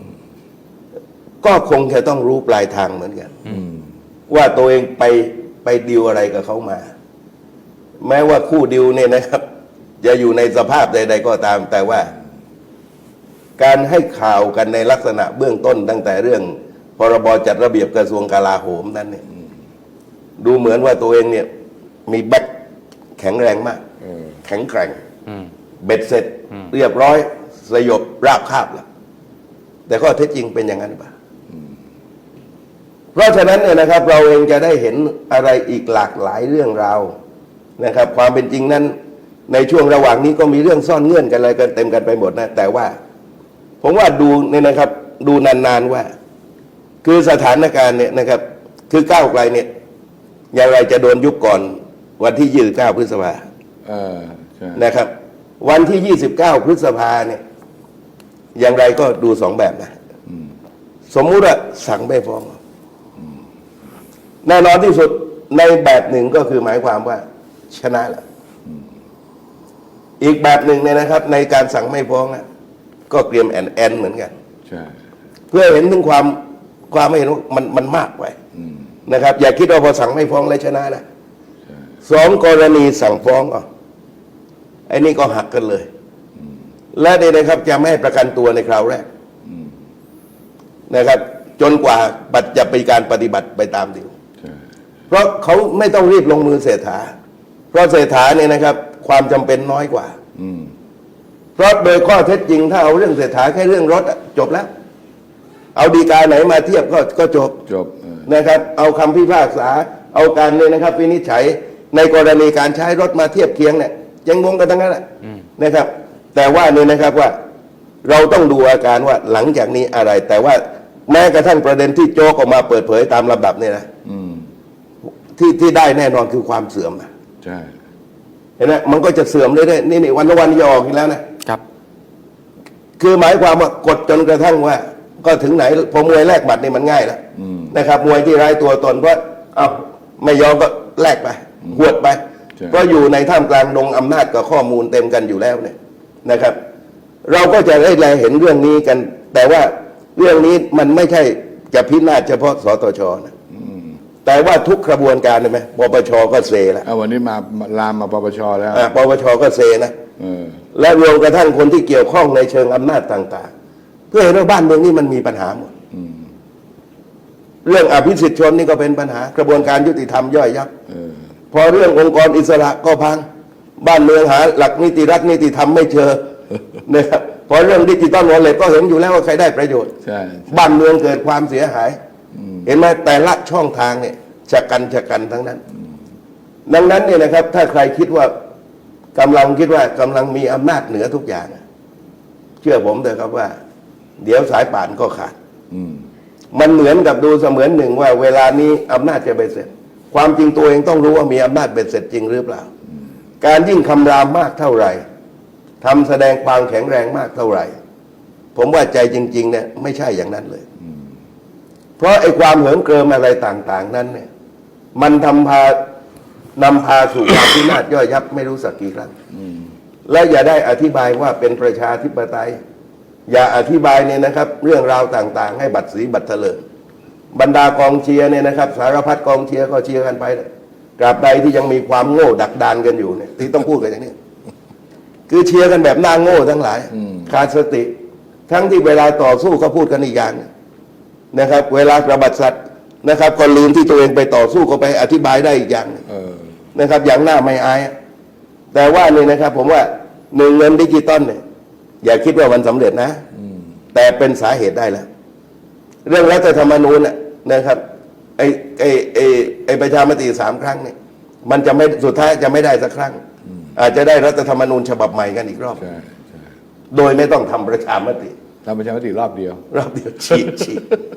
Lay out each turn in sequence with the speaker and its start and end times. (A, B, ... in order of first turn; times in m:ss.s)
0:01.4-0:03.4 A
0:03.4-0:03.9 B
0:04.3-0:06.9 A
0:08.0-0:09.4 A
0:10.0-0:12.1 A
0:13.6-0:19.2 A
0:20.4-0:21.5 A
0:22.1-0:22.5 A
0:23.2-0:23.8 A
0:24.0-0:24.4 B
0:24.4-0:25.0 A
0:25.8-0:28.8 A
0:29.9-0:31.1 A
0:33.1-0:37.1 A
0:37.8-0:38.9 A
0:39.5-0:43.0 A
0:43.8-0:46.1 A
0:47.0-0:49.7 A
0:50.5-0:53.4 A
0:53.8-0:54.9 B
0:54.8-0:57.4 A
0:58.5-0:59.9 A
1:01.1-1:02.6 A
1:04.4-1:08.2 A
1:10.2-1:12.4 A
1:13.1-1:14.3 A
1:14.7-1:14.9 B
1:15.5-1:18.3 A
1:18.5-1:18.9 B
1:19.0-1:21.0 A
1:22.0-1:23.6 A
1:24.9-1:25.9 A
1:26.9-1:29.1 A
1:29.4-1:29.7 B
1:30.9-1:34.1 A
1:35.1-1:37.1 A
1:37.7-1:40.2 A
1:40.4-1:40.7 B
1:41.6-1:44.7 A
1:45.7-1:47.6 A
1:47.7-1:48.3 B
1:48.2-1:55.0 A
1:55.6-1:57.3 A
1:58.0-2:03.9 A
2:04.0-2:04.5 B
2:05.0-2:07.1 A
2:07.4-2:07.7 B
2:08.6-2:11.2 A
2:13.0-2:26.6 A
2:17.4-2:17.8 B
2:22.6-2:22.8 B
2:27.2-2:33.3 A
2:33.5-2:34.0 B
2:34.2-2:36.8 A
2:36.8-2:38.9 B
2:38.7-2:39.9 A
2:40.2-2:40.6 B
2:40.7-2:43.5 A
2:44.1-2:45.7 A
2:45.9-2:46.3 B
2:47.6-2:50.7 A
2:50.9-2:51.2 B
2:51.5-2:53.2 A
2:53.8-2:56.2 A
2:56.8-2:59.9 A
3:00.0-3:00.8 B
3:00.5-3:02.0 A
3:02.3-3:02.7 B
3:02.6-3:05.6 A
3:06.7-3:08.3 A
3:09.1-3:11.6 A
3:12.6-3:13.6 A
3:14.2-3:15.3 A
3:15.7-3:16.0 B
3:16.5-3:22.7 A
3:23.4-3:25.0 A
3:25.8-3:27.7 A
3:28.5-3:30.6 A
3:32.0-3:34.3 A
3:34.9-3:35.8 A
3:36.6-3:39.1 A
3:39.3-3:39.7 B
3:40.0-3:42.6 A
3:43.3-3:46.6 A
3:47.3-3:50.4 A
3:51.0-3:54.1 A
3:55.3-3:57.9 A
3:56.9-3:57.3 B
3:58.5-4:00.5 A
4:01.3-4:06.0 A
4:06.1-4:06.5 B
4:06.7-4:07.9 A
4:08.7-4:11.4 A
4:12.0-4:13.2 A
4:13.4-4:13.7 B
4:13.9-4:15.1 A
4:16.0-4:17.8 A
4:18.4-4:23.2 A
4:23.5-4:23.7 B
4:23.8-4:25.8 A
4:25.7-4:26.5 B
4:26.9-4:28.3 A
4:28.6-4:29.6 B
4:29.7-4:30.8 A
4:30.4-4:30.7 B